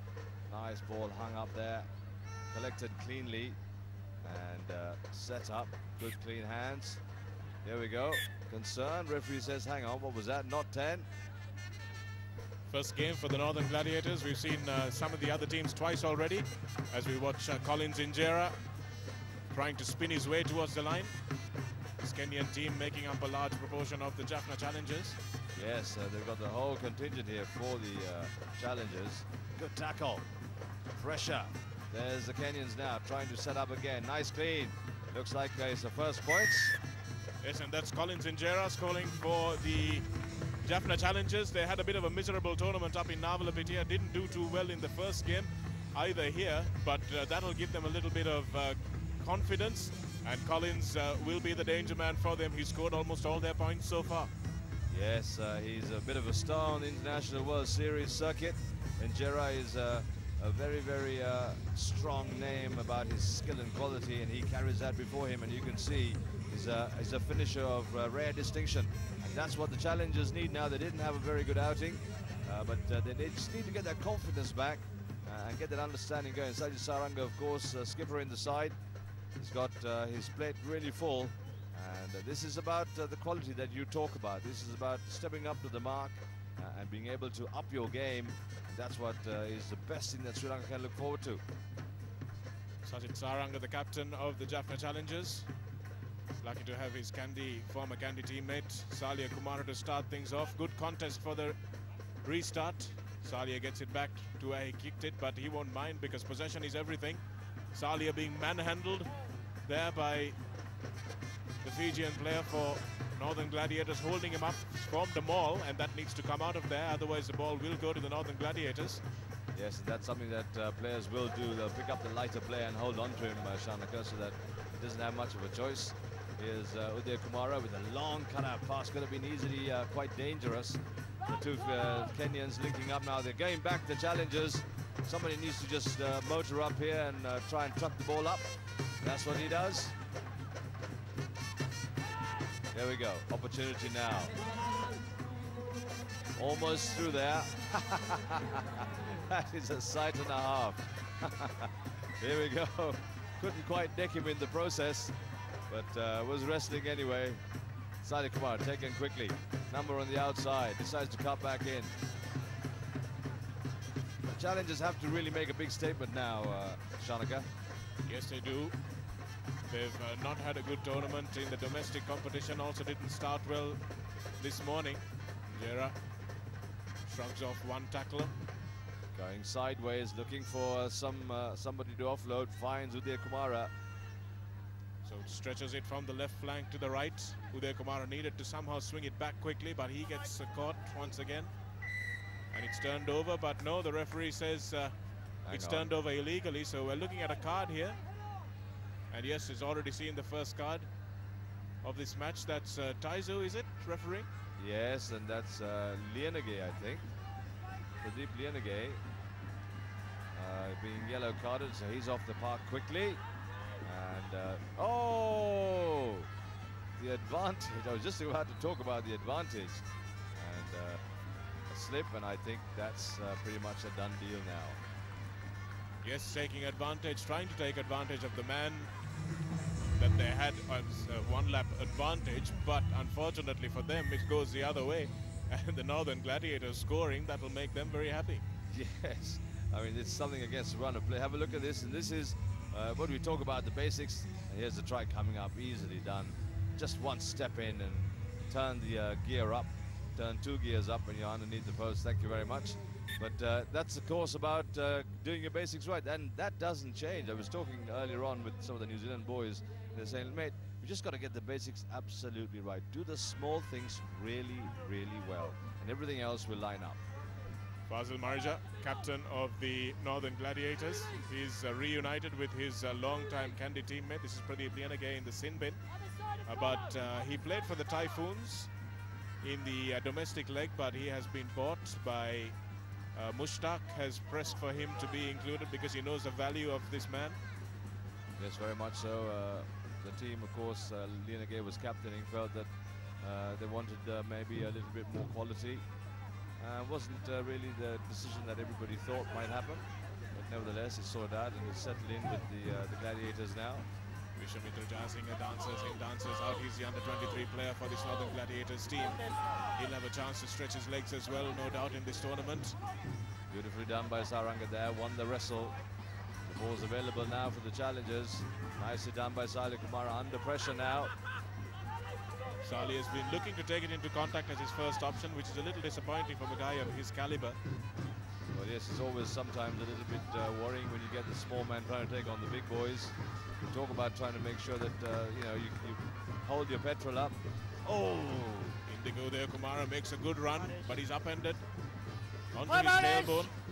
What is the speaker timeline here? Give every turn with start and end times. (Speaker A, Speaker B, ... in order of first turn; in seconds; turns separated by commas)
Speaker A: 0.5-1.9, Speaker A: 2.5-3.6, Speaker A: 4.2-7.0, Speaker A: 7.6-11.1, Speaker B: 12.7-18.6, Speaker B: 19.5-21.1, Speaker B: 22.0-25.2, Speaker A: 25.6-30.3, Speaker A: 31.0-36.8, Speaker B: 37.4-40.1, Speaker B: 40.6-54.3, Speaker A: 54.9-78.8, Speaker A: 79.4-91.4, Speaker B: 92.8-95.5, Speaker B: 96.4-101.6, Speaker B: 102.2-109.1, Speaker B: 109.7-110.4, Speaker B: 111.6-119.0, Speaker A: 119.5-138.5, Speaker A: 139.0-140.0, Speaker A: 142.7-144.3, Speaker A: 146.4-155.2, Speaker A: 155.7-157.4, Speaker A: 158.0-161.9, Speaker A: 164.3-167.5, Speaker B: 168.1-168.8, Speaker B: 169.7-173.8, Speaker B: 174.4-175.9, Speaker B: 177.1-178.3, Speaker A: 179.1-183.7, Speaker B: 185.0-191.5, Speaker B: 192.5-194.9, Speaker A: 195.4-195.9, Speaker B: 195.5-198.0, Speaker B: 199.1-200.9, Speaker B: 201.8-204.3, Speaker A: 204.6-207.1, Speaker A: 208.0-209.0, Speaker A: 210.3-213.2, Speaker A: 213.8-216.3, Speaker A: 217.0-219.8, Speaker A: 220.3-221.0, Speaker A: 221.7-224.8, Speaker B: 226.0-228.9, Speaker B: 230.0-238.4, Speaker A: 238.7-267.0, Speaker B: 267.9-275.8, Speaker B: 276.4-278.7, Speaker B: 279.4-282.5, Speaker B: 283.1-287.4, Speaker A: 288.4-295.8, Speaker A: 296.6-303.9, Speaker B: 304.4-312.8, Speaker A: 313.5-315.8, Speaker A: 316.4-321.1, Speaker B: 322.6-327.6, Speaker A: 328.5-333.1, Speaker A: 333.7-338.8, Speaker B: 338.9-341.6, Speaker B: 342.5-343.6